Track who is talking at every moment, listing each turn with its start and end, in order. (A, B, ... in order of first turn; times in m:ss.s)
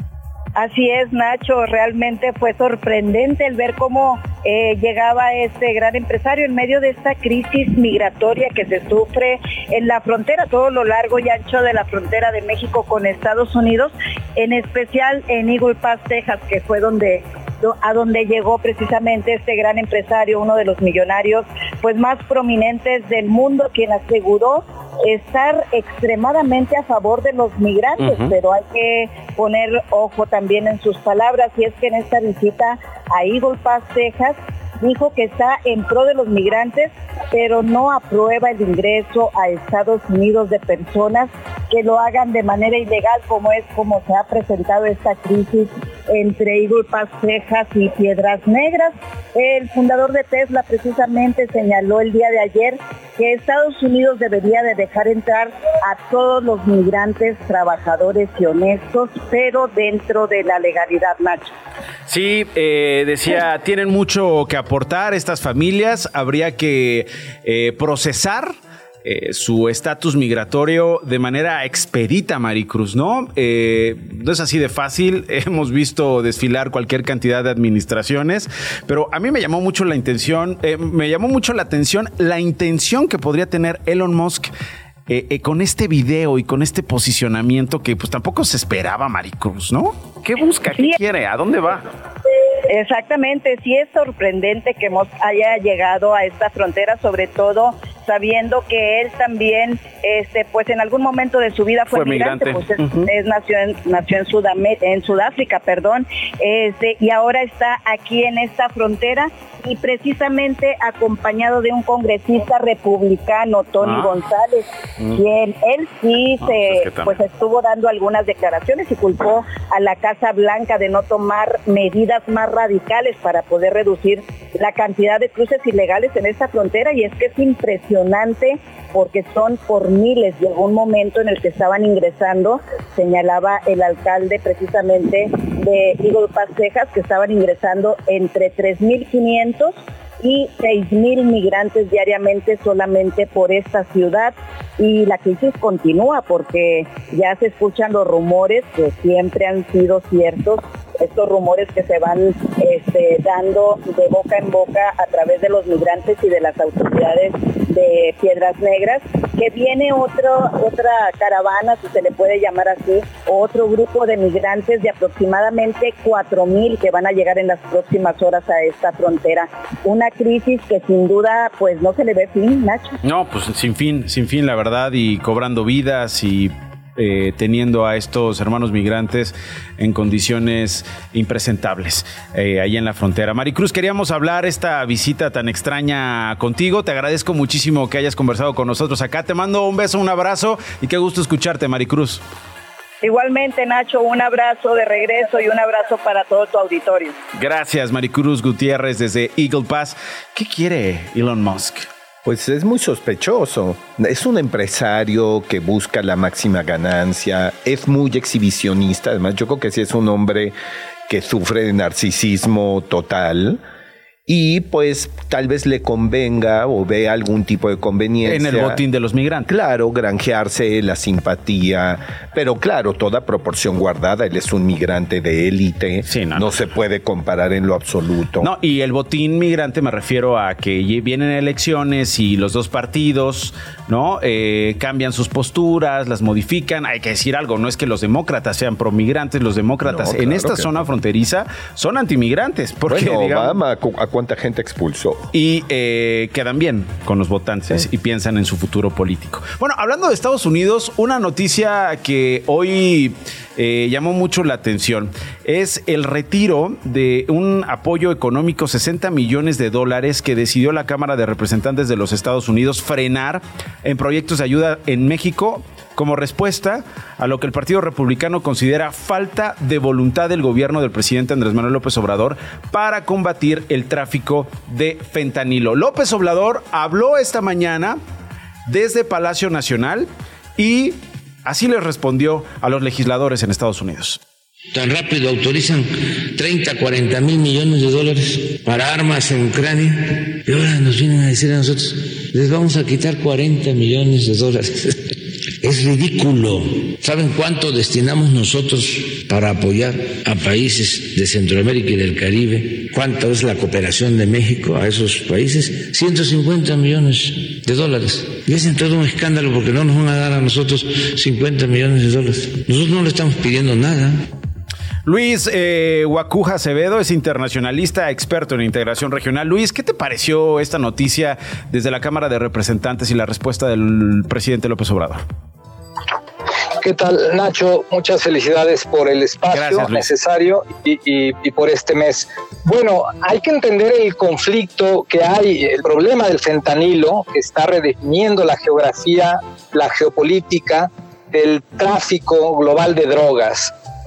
0:00.6-1:01.5 A
0:28.0-0:28.3 B
1:02.1-1:24.5 B
1:25.1-1:31.9 B
1:32.7-2:53.0 A
1:41.9-1:43.1 B
1:53.8-1:54.1 B
1:56.4-1:57.2 B
2:53.0-3:12.2 B
3:13.0-3:17.2 A
3:17.4-3:21.9 B
3:22.2-3:30.5 C
3:31.1-3:33.6 C
3:34.3-3:38.8 C
3:38.2-3:39.5 B
3:39.5-3:48.5 C
3:46.1-3:46.5 B
3:48.4-4:03.6 B
3:59.8-4:00.8 C
4:02.8-4:05.3 C
4:05.3-4:38.0 B
4:38.7-4:44.2 B
4:44.7-5:14.3 D
5:15.0-5:25.2 B
5:26.8-5:43.7 E
5:29.5-5:30.0 B